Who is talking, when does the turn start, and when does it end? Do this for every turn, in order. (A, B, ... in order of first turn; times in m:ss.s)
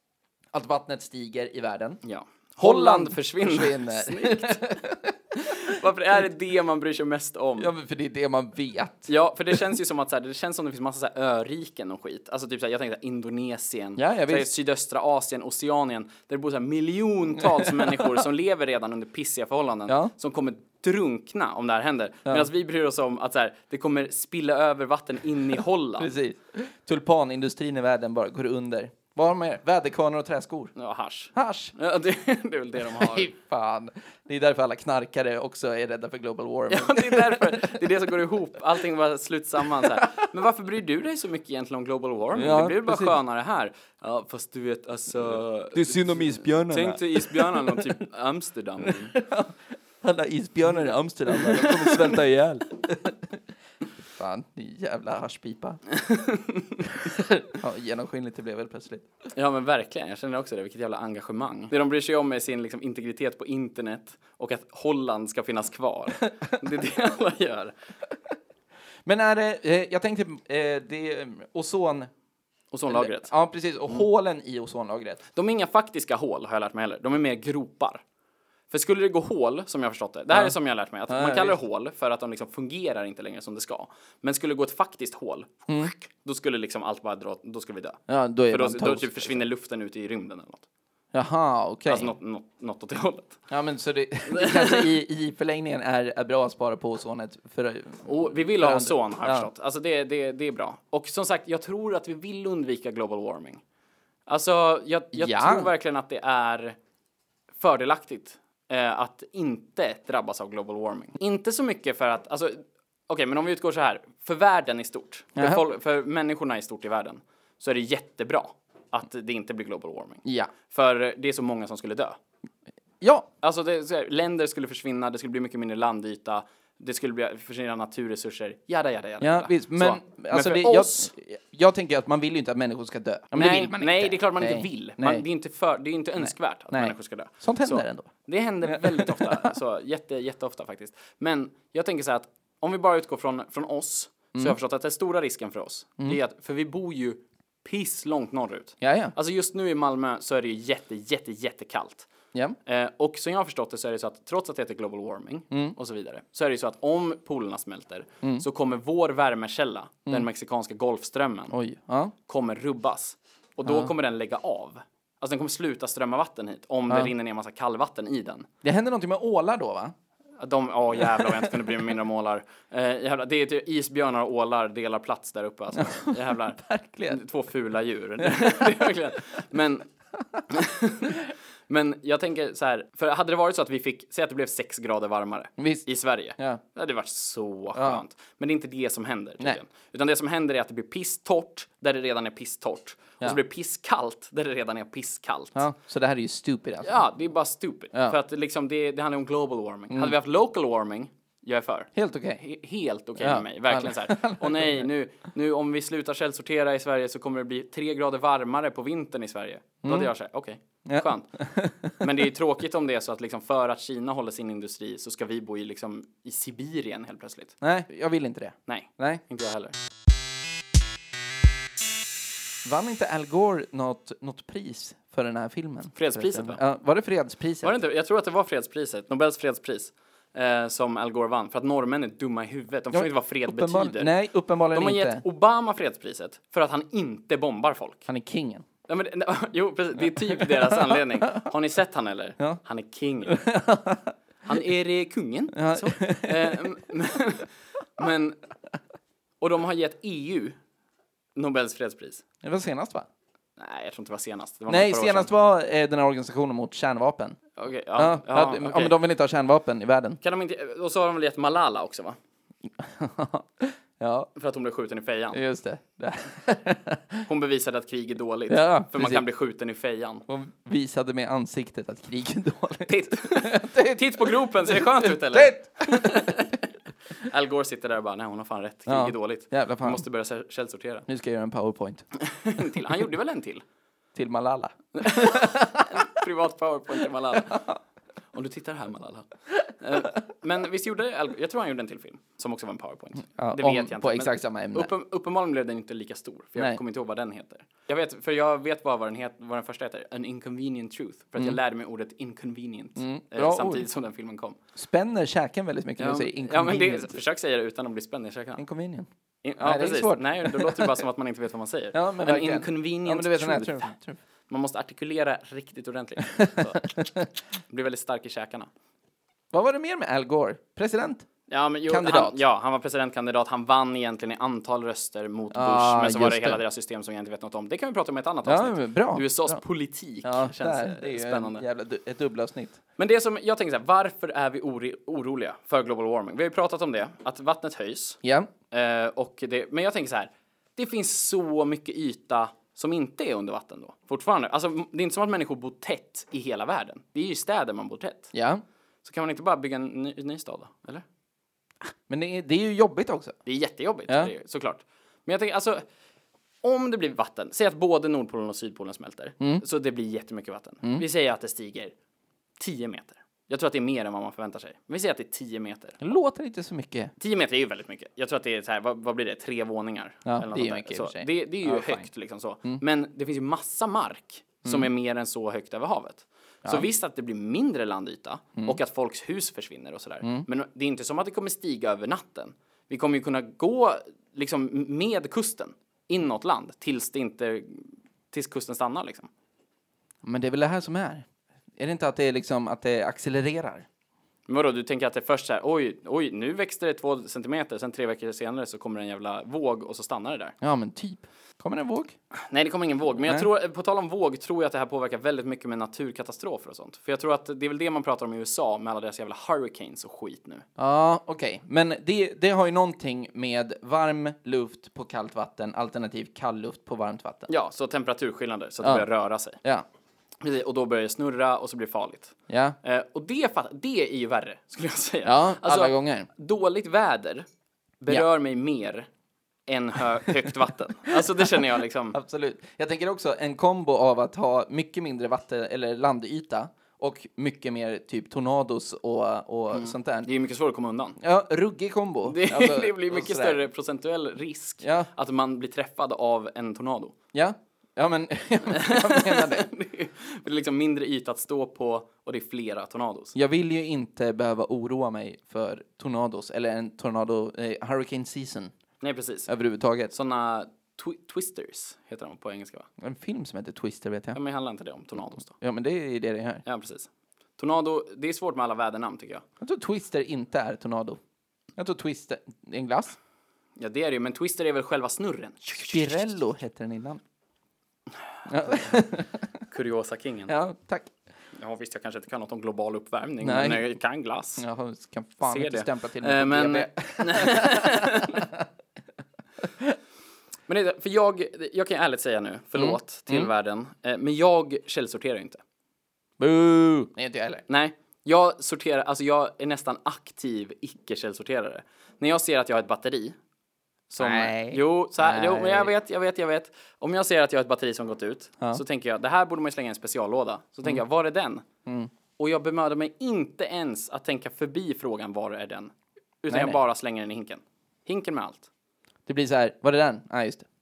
0:00.5-0:02.0 A
0:02.0-0:04.6 B
0:02.6-0:05.8 A
0:05.4-0:07.7 B
0:07.6-0:09.6 A
0:09.1-0:26.1 B
0:14.0-0:14.5 A
0:17.5-0:18.2 A
0:26.0-0:30.7 A
0:30.8-0:33.3 B
0:31.3-0:31.7 A
0:32.9-0:37.8 A
0:36.7-0:49.1 B
0:39.8-0:40.1 A
0:42.4-0:43.2 A
0:45.7-0:48.0 A
0:48.8-0:53.4 A
0:51.3-0:52.1 B
0:54.2-0:55.8 A
0:55.9-0:56.8 B
0:57.0-0:59.1 A
0:59.4-1:07.7 B
1:09.0-1:12.1 A
1:12.7-1:13.3 B
1:12.9-1:15.2 A
1:15.4-1:18.0 B
1:18.7-1:30.7 B
1:21.1-1:21.6 A
1:28.1-1:29.4 A
1:31.1-1:32.1 A
1:31.9-1:33.4 B
1:33.5-1:39.5 A
1:34.3-1:34.9 B
1:38.0-1:43.6 B
1:44.3-1:46.8 B
1:45.1-1:45.7 A
1:47.6-2:02.2 B
1:55.4-1:55.6 A
2:00.2-2:00.5 A
2:03.0-2:03.3 A
2:03.4-2:11.1 B
2:09.2-2:15.2 A
2:13.3-2:32.1 B
2:16.2-2:18.1 A
2:18.7-2:19.5 A
2:28.8-2:29.1 A
2:32.7-2:41.6 B
2:41.5-2:42.1 A
2:42.3-2:48.5 B
2:43.6-2:43.9 A
2:48.6-2:49.9 A
2:50.4-2:59.9 B
2:51.2-2:51.5 A
2:55.8-2:57.2 A
2:58.2-2:58.8 A
3:00.5-3:15.7 B
3:05.6-3:05.9 A
3:07.8-3:08.0 A
3:15.6-3:17.0 A
3:16.8-3:31.3 B
3:22.0-3:22.4 A
3:23.2-3:24.9 A
3:29.8-3:30.1 A
3:30.9-3:32.0 A
3:32.0-3:37.6 B
3:37.6-3:39.2 A
3:38.7-3:39.8 B
3:42.6-3:47.7 A
3:46.0-3:46.6 B
3:47.6-3:54.1 B
3:52.9-3:55.2 A
3:54.7-3:58.0 B
3:58.1-3:58.6 A
3:58.9-4:03.5 B
4:00.7-4:01.0 A
4:03.3-4:04.1 A
4:04.4-4:08.4 B
4:05.5-4:06.7 A
4:09.4-4:10.6 B
4:11.4-4:12.2 B
4:12.4-4:13.1 A
4:13.6-4:15.3 B
4:14.7-4:17.4 A
4:17.6-4:19.0 B
4:18.0-4:20.2 A
4:20.2-4:22.2 B
4:22.8-4:24.3 A
4:24.4-4:25.4 B
4:25.3-4:27.2 A
4:27.3-4:30.2 B
4:28.5-4:29.2 A
4:30.3-4:36.6 A
4:32.9-4:41.1 B
4:38.9-4:40.0 A
4:41.1-4:42.1 A
4:42.2-4:43.6 B
4:44.2-4:46.0 A
4:44.9-4:47.6 B
4:47.5-4:47.8 A
4:48.3-5:04.6 B
4:53.4-4:54.9 A
5:03.0-5:03.9 A
5:04.8-5:07.2 A
5:06.0-5:08.6 B
5:08.6-5:09.1 A
5:09.4-5:13.9 B
5:09.6-5:11.0 A
5:11.9-5:14.2 A
5:14.5-5:17.0 B
5:16.4-5:17.3 A
5:17.7-5:18.7 B
5:19.5-5:21.3 A
5:21.5-5:31.6 B
5:21.9-5:22.4 A
5:25.5-5:26.6 A
5:28.5-5:29.6 A
5:30.2-5:32.8 A
5:33.0-5:38.2 B
5:38.2-5:38.5 A
5:38.7-5:48.3 B
5:48.3-5:48.6 A
5:49.0-5:51.0 B
5:51.9-5:53.4 A
5:53.5-5:55.8 B
5:56.6-6:01.9 B
6:02.6-6:06.0 B
6:06.0-6:07.1 A
6:07.2-6:29.3 B
6:10.2-6:12.1 A
6:30.2-6:31.3 A
6:31.8-6:33.9 A
6:34.5-6:40.5 B
6:40.6-6:42.2 A
6:42.5-6:50.6 B
6:50.8-6:57.5 A
6:57.5-6:59.6 B
6:58.8-6:59.1 A
7:00.4-7:07.5 B
7:02.5-7:02.8 A
7:05.2-7:06.3 A
7:08.0-7:09.1 B
7:09.7-7:12.2 B
7:11.2-7:11.5 A
7:12.1-7:20.3 A
7:19.7-7:21.2 B
7:21.2-7:23.6 A
7:22.3-7:27.2 B
7:24.8-7:25.1 A
7:27.3-7:29.7 A
7:28.7-7:33.4 B
7:33.4-7:38.7 A
7:39.0-7:39.5 B
7:39.5-7:40.1 A
7:40.1-7:42.9 B
7:43.0-7:44.4 A
7:44.4-7:45.5 B
7:45.5-7:46.6 A
7:46.6-7:49.4 B
7:49.6-7:51.2 A
7:51.8-7:53.2 A
7:53.8-7:56.3 B
7:55.8-7:57.2 A
7:58.5-7:59.6 A
7:59.7-8:00.6 B
8:00.5-8:01.1 A
8:01.6-8:04.6 B
8:03.4-8:03.9 A
8:04.6-8:08.7 A
8:05.4-8:08.5 B
8:09.6-8:10.0 A
8:10.7-8:15.6 B
8:12.8-8:13.5 A
8:16.4-8:17.6 A
8:17.7-8:23.4 B
8:24.1-8:31.6 B
8:24.2-8:25.9 A
8:31.9-8:32.1 A
8:32.4-8:35.9 B
8:36.4-8:38.7 B
8:36.5-8:36.8 A
8:39.3-8:40.7 A